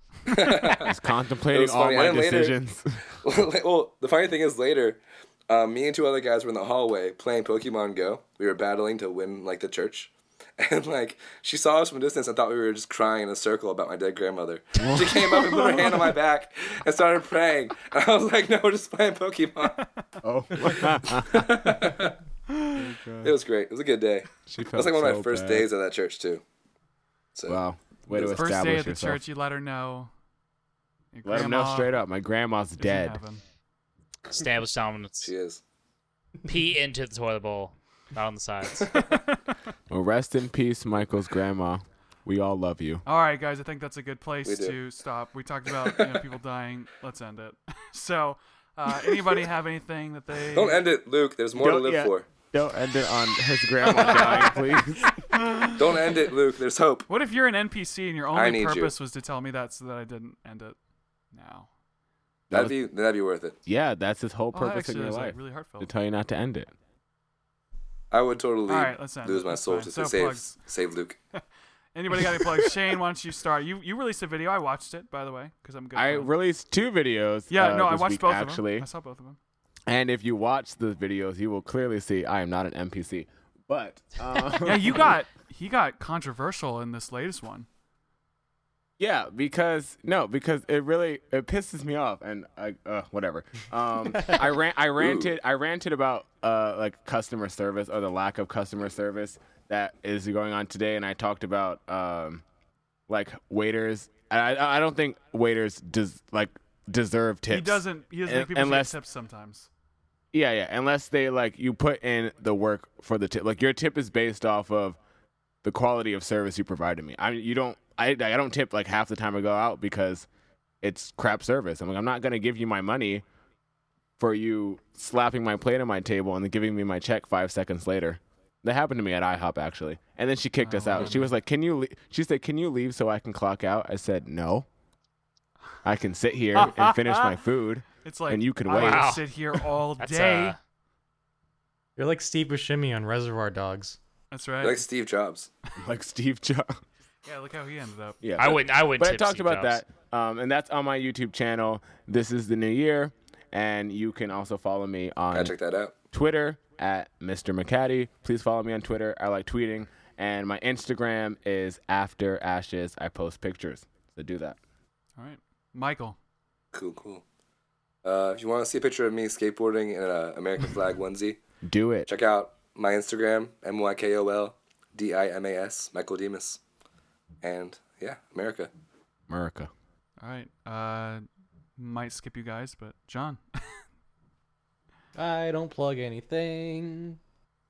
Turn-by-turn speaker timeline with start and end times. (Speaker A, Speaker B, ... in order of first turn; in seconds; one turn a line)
Speaker A: 0.3-0.9
Speaker B: 0.7-3.0
Speaker A: 1.5-2.6
Speaker A: 3.2-19.8
Speaker B: 14.8-15.8
Speaker C: 19.8-20.0
Speaker B: 20.2-21.8
Speaker A: 21.2-22.2
Speaker C: 22.5-22.9
Speaker B: 22.8-23.3
Speaker A: 23.2-26.4
Speaker B: 24.4-25.7
Speaker A: 27.3-27.6
Speaker B: 27.5-29.2
Speaker A: 28.1-28.4
Speaker C: 28.2-30.1
Speaker C: 31.1-31.9
Speaker B: 31.2-33.2
Speaker C: 32.8-33.4
Speaker D: 34.3-35.3
Speaker A: 35.2-35.6
Speaker D: 36.5-39.0
Speaker B: 39.9-43.0
Speaker C: 43.0-50.8
Speaker A: 44.5-44.8
Speaker A: 45.8-46.2
Speaker A: 50.5-52.3
Speaker B: 51.6-55.2
Speaker C: 53.9-54.6
Speaker C: 55.3-55.9
Speaker A: 55.8-57.1
Speaker C: 57.1-60.8
Speaker A: 58.3-58.9
Speaker C: 61.3-61.7
Speaker A: 62.5-63.6
Speaker B: 63.7-66.7
Speaker C: 64.5-65.9
Speaker A: 68.1-71.2
Speaker C: 68.7-70.6
Speaker C: 72.0-76.3
Speaker B: 76.0-78.9
Speaker C: 77.5-79.4
Speaker B: 79.9-85.1
Speaker C: 84.6-87.7
Speaker B: 89.0-102.4
Speaker A: 95.0-95.3
Speaker B: 103.1-109.0
Speaker C: 107.5-109.7
Speaker B: 110.3-115.0
Speaker B: 115.6-120.3
Speaker B: 120.8-123.2
Speaker B: 124.2-134.7
Speaker C: 130.6-131.3
Speaker B: 135.8-139.2
Speaker C: 136.6-137.3
Speaker C: 138.0-140.6
Speaker D: 138.7-140.6
Speaker E: 142.0-144.0
Speaker C: 144.3-144.8
Speaker A: 144.6-145.5
Speaker B: 145.8-146.8
Speaker C: 147.2-148.2
Speaker B: 148.2-155.6
Speaker D: 148.4-149.8
Speaker A: 155.3-156.0
Speaker B: 156.1-164.6
Speaker C: 165.2-166.2
Speaker A: 166.7-167.2
Speaker A: 168.0-171.4
Speaker B: 171.6-172.1
Speaker A: 172.1-176.6
Speaker A: 177.4-178.7
Speaker B: 179.3-179.7
Speaker C: 180.2-181.2
Speaker C: 181.8-183.4
Speaker E: 185.2-187.2